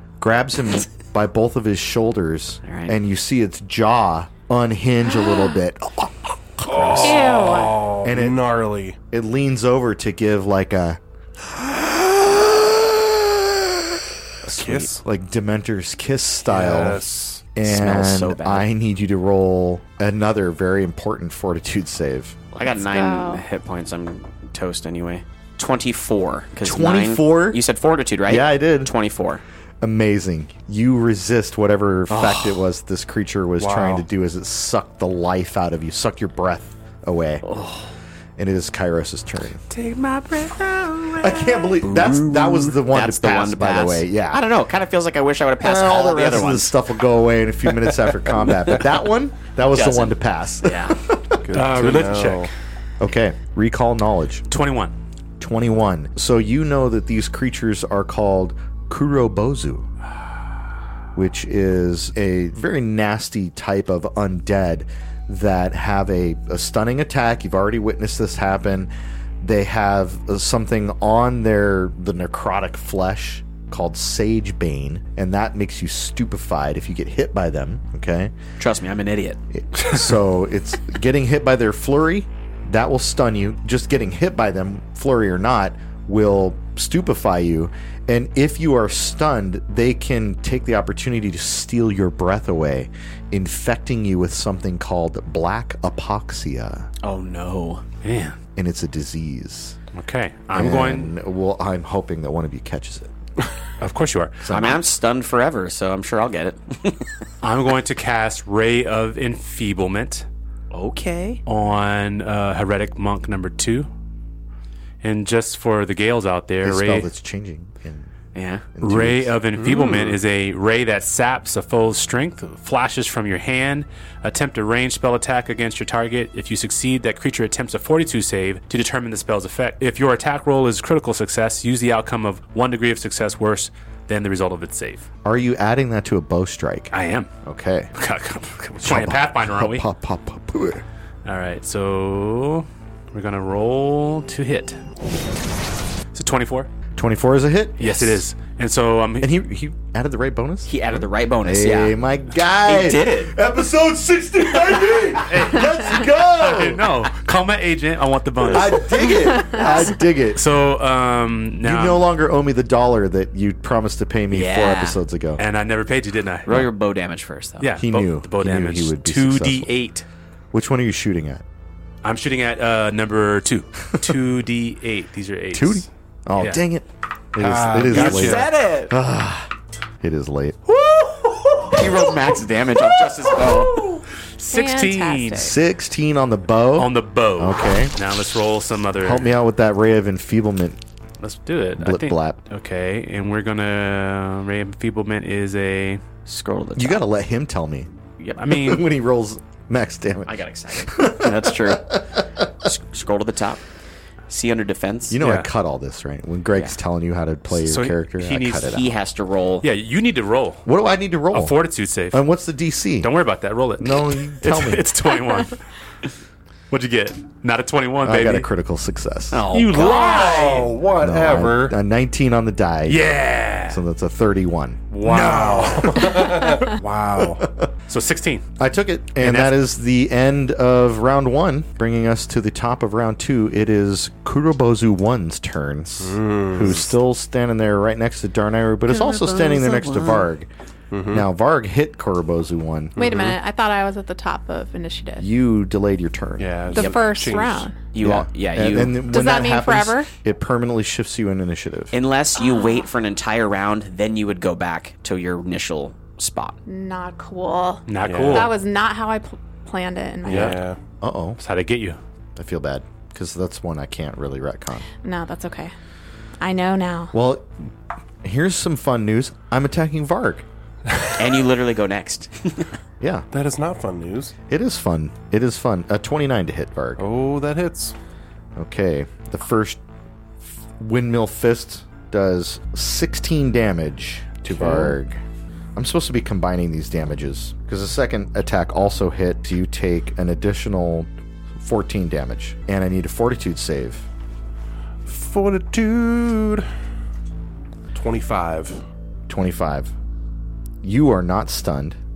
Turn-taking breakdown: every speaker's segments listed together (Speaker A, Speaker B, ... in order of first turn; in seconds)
Speaker A: 0.2-7.4, 8.0-8.4, 9.1-11.0, 14.6-17.0, 17.5-22.4, 26.6-27.6, 28.3-28.9, 29.8-37.4, 38.4-39.6, 41.2-44.4, 45.6-51.4, 53.0-54.5, 55.4-59.9, 61.1-78.3, 79.5-96.9, 98.6-99.8, 100.5-103.1, 104.4-104.8, 116.6-118.1, 118.8-119.3, 135.2-136.9, 137.4-137.9, 138.8-140.8, 146.9-148.0, 149.2-150.8, 151.4-156.9, 158.5-160.4, 161.6-165.4, 167.8-169.7, 170.5-171.4, 175.5-179.5, 180.0-180.6, 185.3-187.9, 189.0-190.8, 191.8-192.4, 196.8-197.9, 198.5-202.4, 205.1-208.9, 210.7-211.6, 212.1-213.1, 213.8-214.9, 218.0-219.4, 221.0-223.1, 223.7-224.9, 227.2-227.7, 228.6-240.5, 241.1-243.0, 245.2-246.9, 248.0-251.9, 261.0-261.4, 262.4-264.9, 267.1-267.7, 268.2-270.4, 273.0-273.3, 274.5-277.0, 278.6-279.8, 280.4-285.2, 285.8-294.1, 299.3-299.9, 300.8-302.0
Speaker B: 2.6-3.0, 14.5-14.9, 17.6-18.7, 22.5-29.4, 32.1-32.6, 37.4-37.9, 41.9-46.8, 49.7-51.0, 78.6-79.4, 97.0-97.8, 104.5-107.2, 110.7-111.4, 118.3-118.7, 147.8-148.2, 150.7-151.9, 152.6-153.3, 164.3-165.0, 166.5-167.7, 177.9-178.9, 181.7-184.0, 196.3-197.1, 200.3-202.0, 202.6-203.6, 204.3-205.2, 208.6-209.7, 219.3-220.3, 238.9-240.2, 247.9-249.0, 251.9-256.6, 271.2-272.7
Speaker C: 5.1-5.5, 7.0-7.8, 22.7-23.4, 159.3-159.7, 184.5-185.6, 243.0-245.3, 246.7-247.8, 249.1-250.1, 256.7-260.6, 265.0-265.7, 266.4-267.1
Speaker D: 6.7-9.0, 11.8-12.4, 14.5-15.0, 16.5-17.5, 33.6-34.0, 51.4-52.5, 119.6-120.2, 177.4-178.5, 219.8-221.8, 225.0-227.4, 236.0-236.9, 240.9-241.3, 243.0-243.4, 246.4-247.7, 258.0-258.5, 260.3-260.8, 273.3-274.4, 277.0-277.9, 284.5-285.0, 295.1-296.7, 297.9-298.8
Speaker E: 39.7-41.5, 51.5-52.5, 54.5-54.9, 98.0-98.4, 99.9-101.1, 103.8-104.4, 107.4-110.3, 111.5-113.9, 115.0-117.1, 118.8-135.1, 136.9-137.3, 137.9-139.9, 141.2-144.8, 146.1-146.7, 147.8-149.3, 155.3-159.2, 160.3-162.1, 165.4-166.7, 167.6-170.1, 172.0-176.6, 177.9-178.4, 184.4-185.5, 186.8-189.3, 191.2-196.0, 198.4-198.9, 205.2-205.5, 207.5-208.8, 209.6-210.7, 211.3-212.2, 213.0-215.6, 216.7-218.5, 219.5-220.8, 222.9-223.8, 224.9-226.8, 227.9-228.5, 229.2-229.6, 257.9-258.5, 260.3-260.6, 261.4-262.0